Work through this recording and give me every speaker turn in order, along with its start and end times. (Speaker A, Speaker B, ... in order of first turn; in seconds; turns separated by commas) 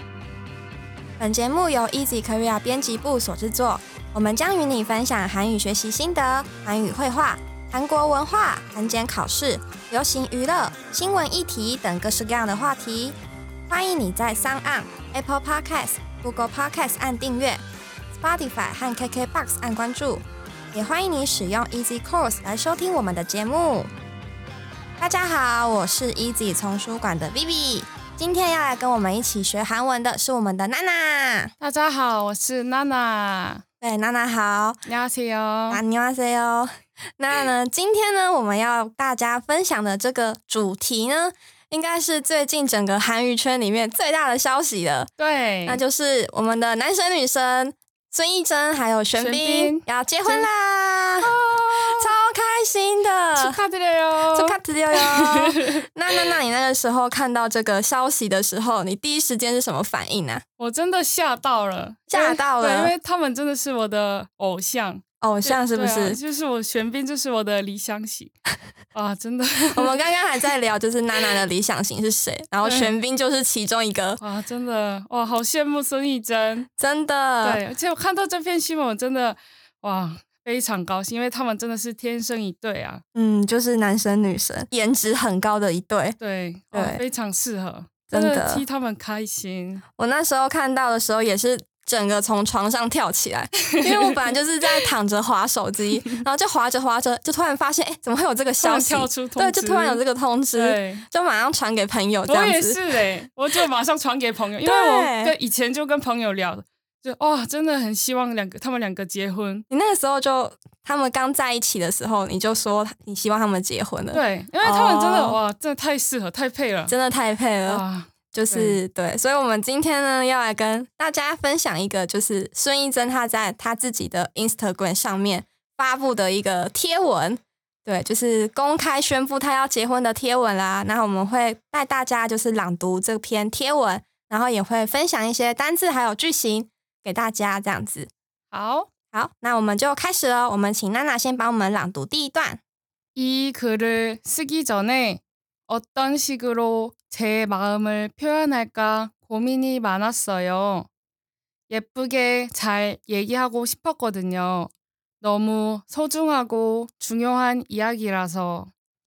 Speaker A: 1.2-13.2, Speaker A: 13.7-23.9, Speaker A: 25.0-31.5, Speaker B: 31.6-33.6, Speaker A: 33.8-34.8, Speaker B: 34.9-35.8, Speaker A: 35.7-45.1, Speaker B: 45.2-45.8, Speaker A: 45.7-53.6, Speaker B: 49.2-50.5, Speaker B: 51.2-52.1, Speaker B: 53.4-56.2, Speaker A: 54.3-60.4, Speaker B: 60.6-68.3, Speaker A: 62.1-63.0, Speaker A: 65.2-66.2, Speaker B: 68.9-69.9, Speaker A: 69.8-74.2, Speaker B: 72.6-72.9, Speaker B: 74.2-76.7, Speaker A: 76.8-77.6, Speaker B: 77.4-83.0, Speaker A: 83.2-86.2, Speaker B: 86.2-89.8, Speaker A: 86.7-87.0, Speaker A: 88.1-88.7, Speaker A: 90.0-102.8, Speaker B: 93.7-94.3, Speaker B: 98.6-100.0, Speaker B: 100.5-101.0, Speaker B: 102.3-109.7, Speaker A: 104.6-105.3, Speaker A: 109.7-115.4, Speaker B: 114.1-116.9, Speaker A: 116.9-138.1, Speaker B: 117.7-118.8, Speaker B: 138.5-138.9, Speaker A: 139.1-142.6, Speaker B: 143.2-150.9, Speaker B: 151.7-158.7